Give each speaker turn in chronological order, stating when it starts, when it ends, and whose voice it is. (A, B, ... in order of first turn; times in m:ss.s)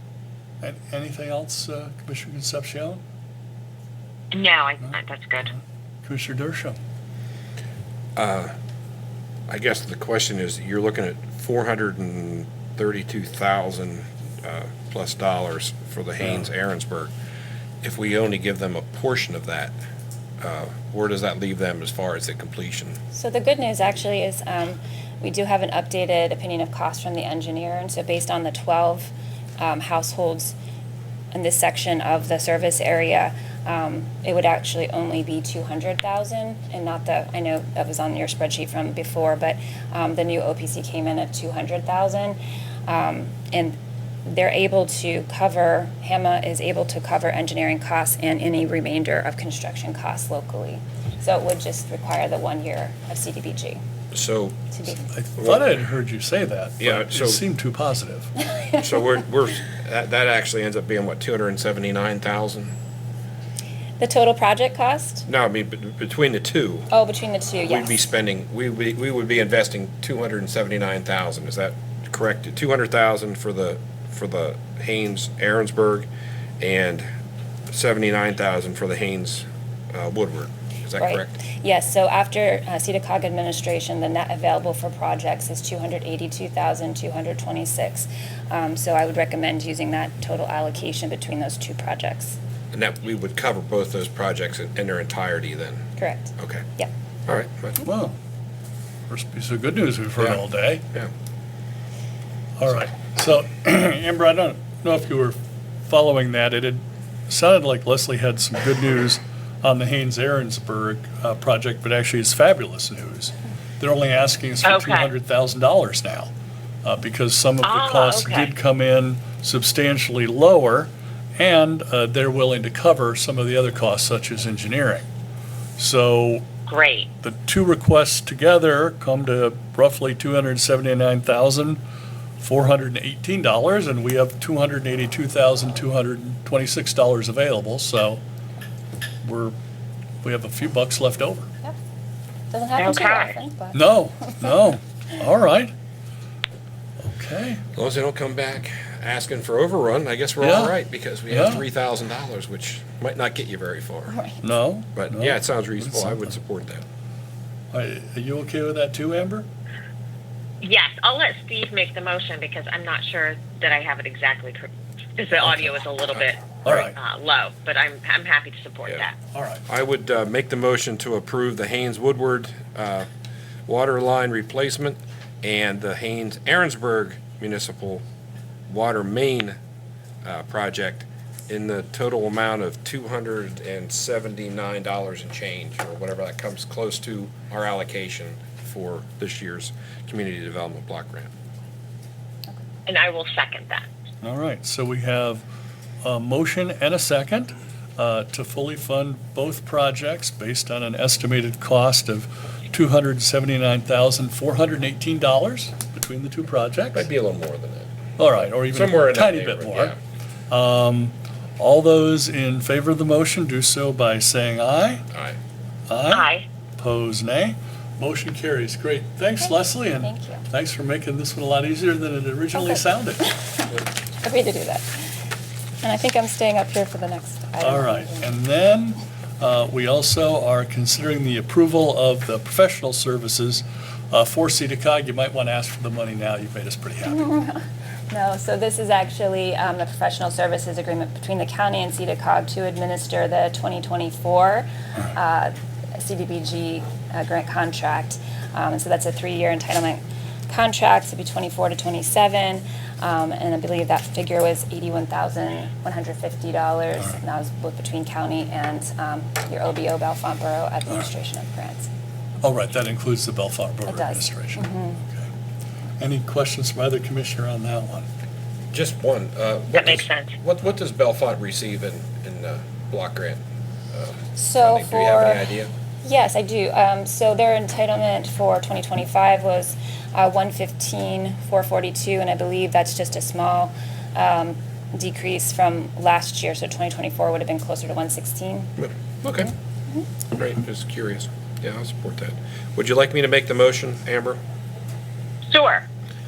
0:00.6-0:03.0 A
0:04.3-0:05.5 B
0:05.4-0:06.8 A
0:08.2-0:08.5 C
0:09.5-0:17.1 C
0:17.8-0:19.7 C
0:20.4-0:23.0 C
0:23.1-0:30.5 D
0:31.3-0:53.8 D
0:54.1-0:54.6 C
0:54.7-0:55.1 D
0:55.1-0:58.3 A
0:55.4-0:55.8 C
0:56.8-0:57.4 C
0:58.8-1:02.7 C
1:04.0-1:05.2 D
1:05.3-1:06.9 C
1:06.9-1:08.1 D
1:07.6-1:16.1 C
1:16.6-1:17.0 C
1:17.7-1:21.4 C
1:21.0-1:32.4 D
1:32.7-1:35.8 C
1:36.0-1:36.9 D
1:36.4-1:36.6 C
1:37.3-1:37.8 C
1:37.8-1:38.2 A
1:39.1-1:40.8 A
1:42.6-1:56.3 A
1:54.6-1:55.1 B
1:56.8-2:05.0 A
1:57.6-1:58.5 B
2:05.8-2:06.4 A
2:06.7-2:07.1 B
2:07.2-2:11.8 A
2:12.4-2:18.2 A
2:19.2-2:19.5 A
2:20.2-2:21.5 A
2:22.5-2:24.6 D
2:22.8-2:23.3 B
2:23.7-2:25.7 A
2:27.0-2:27.6 A
2:27.8-2:34.2 C
2:30.4-2:30.7 A
2:31.3-2:31.6 A
2:34.1-2:34.4 D
2:34.4-2:36.4 A
2:34.9-2:36.8 C
2:37.7-2:39.5 A
2:40.6-2:49.1 B
2:46.6-2:47.0 A
2:49.3-2:49.6 A
2:49.7-2:53.1 C
2:53.7-2:58.0 C
2:58.7-2:59.6 C
3:00.2-3:11.3 C
3:12.9-3:13.8 B
3:14.2-3:15.4 A
3:16.0-3:27.1 A
3:26.9-3:27.9 C
3:28.2-3:30.0 A
3:28.5-3:30.0 C
3:30.5-3:35.0 A
3:35.1-3:35.4 C
3:35.9-3:43.3 A
3:36.1-3:36.4 B
3:39.4-3:40.4 D
3:42.5-3:45.0 D
3:45.8-3:48.3 D
3:47.6-3:57.3 A
3:57.0-4:21.9 D
4:22.4-4:25.3 A
4:23.9-4:25.0 D
4:26.0-4:28.1 A
4:28.7-4:35.7 C
4:29.7-4:30.3 B
4:34.4-4:35.4 D
4:36.0-4:48.7 D
4:48.8-4:49.5 C
4:50.3-4:54.4 C
4:55.5-4:55.8 B